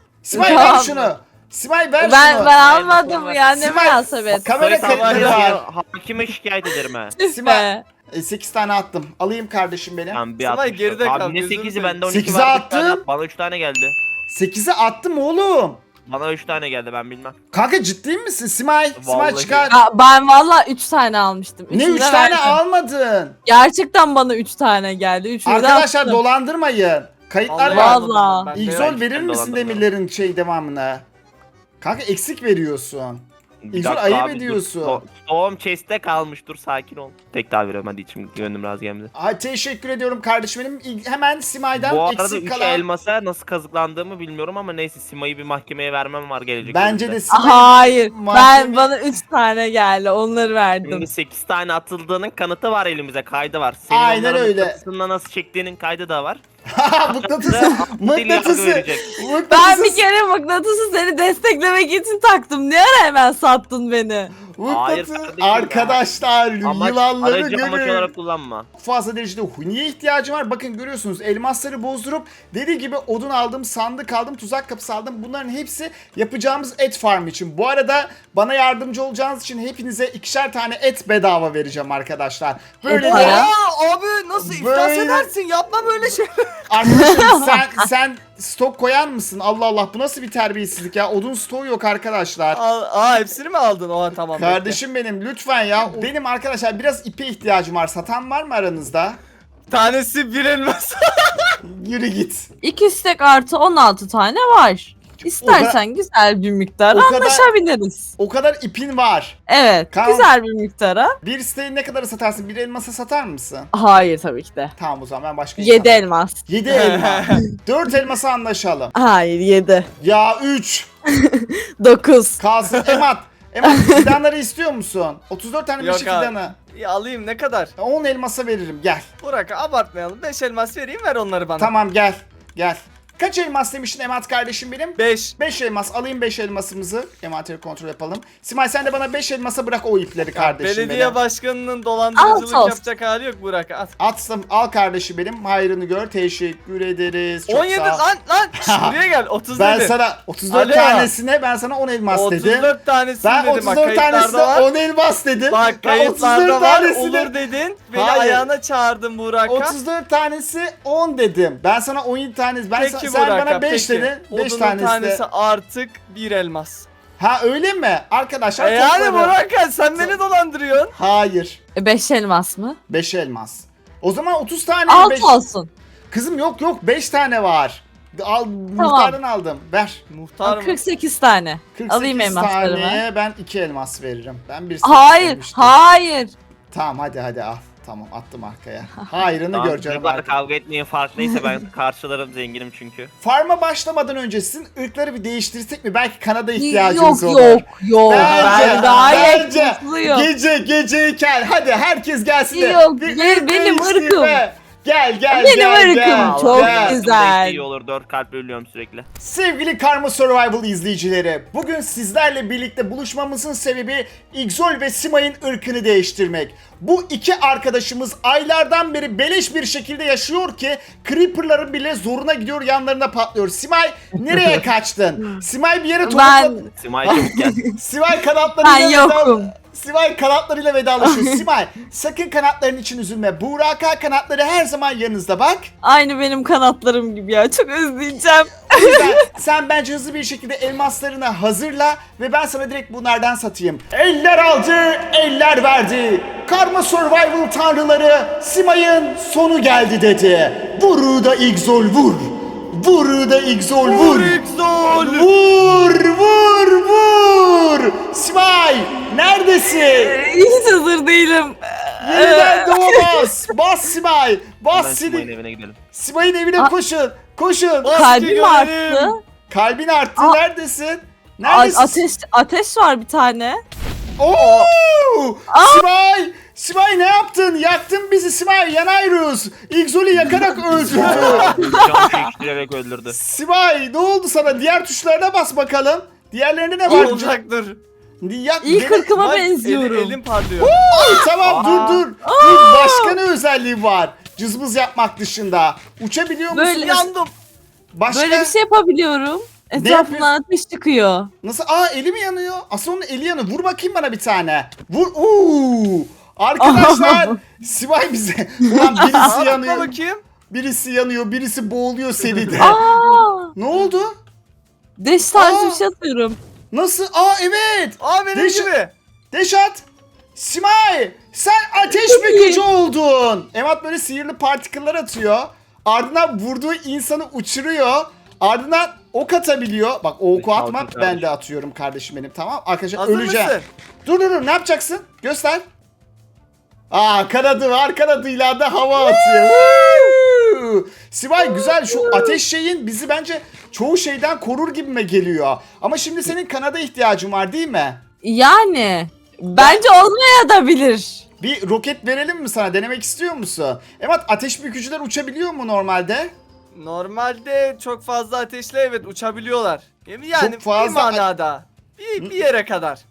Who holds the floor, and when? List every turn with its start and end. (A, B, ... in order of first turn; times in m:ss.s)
0:00.2-0:02.6 A
0:00.3-0:01.0 B
0:00.3-0:01.1 C
0:02.0-0:04.5 B
0:02.6-0:03.7 D
0:03.5-0:05.6 A
0:04.3-0:07.2 D
0:04.8-0:05.4 C
0:07.2-0:07.8 B
0:07.2-0:10.2 A
0:10.1-0:13.9 D
0:10.4-0:12.0 C
0:12.0-0:13.0 A
0:14.3-0:15.8 A
0:16.0-0:17.4 D
0:17.5-0:19.8 A
0:19.0-0:19.7 D
0:19.7-0:22.6 B
0:21.7-0:23.4 A
0:23.4-0:26.2 B
0:25.4-0:28.0 A
0:27.5-0:29.0 C
0:27.7-0:28.5 B
0:28.5-0:31.0 A
0:28.6-0:29.8 D
0:31.8-0:35.0 A
0:33.6-0:39.1 D
0:39.1-0:42.8 A
0:41.8-0:47.2 D
0:46.6-0:48.9 A
0:47.3-0:51.1 B
0:50.8-0:56.4 D
0:53.9-0:54.8 A
0:56.7-1:00.0 A
0:57.2-0:59.2 D
0:59.5-1:04.3 B
1:04.5-1:08.1 A
1:04.6-1:06.0 D
1:06.6-1:08.7 D
1:08.8-1:23.5 A
1:22.9-1:23.5 B
1:23.0-1:26.5 C
1:24.4-1:25.3 A
1:26.7-1:32.6 A
1:27.1-1:27.6 B
1:32.5-1:34.8 C
1:34.4-1:39.2 A
1:39.7-1:41.5 C
1:41.6-1:42.5 A
1:42.6-1:48.1 B
1:45.4-1:45.8 A
1:46.9-1:47.5 A
1:48.2-1:49.4 A
1:49.5-1:51.2 B
1:49.9-1:50.3 A
1:51.2-1:53.7 A
1:53.7-1:54.7 B
1:54.8-1:58.9 A
1:55.6-1:56.4 B
1:56.7-1:57.4 C
1:58.9-1:59.9 B
2:00.0-2:00.9 A
2:01.2-2:02.4 B
2:02.4-2:06.5 A
2:02.7-2:03.0 C
2:03.6-2:04.1 B
2:05.8-2:07.7 C
2:07.8-2:09.0 A
2:09.2-2:11.7 C
2:11.6-2:21.2 A
2:15.0-2:15.4 C
2:20.3-2:23.9 C
2:22.2-2:22.8 B
2:24.0-2:28.0 A
2:27.5-2:29.9 C
2:28.6-2:29.0 A
2:29.5-2:37.3 A
2:30.5-2:31.1 C
2:32.1-2:34.7 C
2:35.5-2:39.8 C
2:37.9-2:38.5 A
2:39.4-2:45.2 A
2:42.8-2:46.9 C
2:47.2-2:49.4 A
2:48.6-2:50.9 C
2:50.9-2:51.6 A
2:51.8-2:52.8 B
2:52.9-2:55.4 A
2:54.9-2:55.7 B
2:56.1-3:00.0 A
2:58.8-2:59.2 B
3:00.1-3:00.8 C
3:00.4-3:03.0 B
3:01.7-3:05.8 A
3:04.8-3:06.3 B
3:06.7-3:10.3 A
3:09.5-3:13.1 D
3:13.2-3:27.0 A
3:16.6-3:20.3 B
3:18.1-3:19.2 D
3:18.2-3:19.1 C
3:22.5-3:24.4 B
3:25.3-3:27.6 B
3:26.1-3:29.1 D
3:29.2-3:55.7 A
3:46.0-3:47.7 B
3:46.8-3:47.7 D
3:48.6-3:49.5 B
3:51.0-3:51.4 B
3:55.8-3:59.2 B
3:58.7-4:14.4 A
4:13.8-4:15.3 C
4:15.0-4:20.2 A
4:19.8-4:23.2 B
4:22.0-4:25.3 A
4:24.7-4:25.8 D
4:25.9-4:28.0 A
4:27.8-4:29.1 C
4:27.9-4:29.2 B
4:29.5-4:32.0 A
4:31.4-4:33.6 B
4:34.2-4:41.5 A
4:35.5-4:35.8 B
4:40.7-4:43.2 D
4:40.9-4:41.6 C
4:41.6-4:42.3 B
4:43.1-4:47.4 A
4:46.8-4:47.8 C
4:48.2-4:49.1 A
4:48.6-4:51.3 B
4:49.1-4:50.8 C
4:50.7-4:57.1 A
4:51.4-4:52.0 D
4:52.2-4:53.2 B
4:56.5-4:57.1 B
4:56.9-4:57.3 C
4:57.9-4:58.5 A
4:58.1-5:01.3 B
4:59.8-5:00.3 A
5:01.4-5:09.9 A
5:06.6-5:07.4 B
5:09.0-5:09.3 B
5:09.2-5:10.2 C
5:10.5-5:12.8 A
5:12.6-5:13.5 B
5:13.5-5:14.2 A
5:15.0-5:16.4 B
5:15.3-5:15.8 A
5:16.7-5:18.7 A
5:18.0-5:18.9 C
5:19.3-5:19.8 A
5:20.4-5:35.6 A
5:21.9-5:22.6 B
5:30.4-5:31.3 D
5:33.0-5:33.7 C
5:36.9-5:48.0 A
5:39.1-5:40.1 B
5:41.4-5:42.4 B
5:48.2-5:51.2 B
5:49.6-5:49.8 A
5:51.4-5:56.3 A
5:56.7-6:03.0 C
6:00.4-6:01.3 A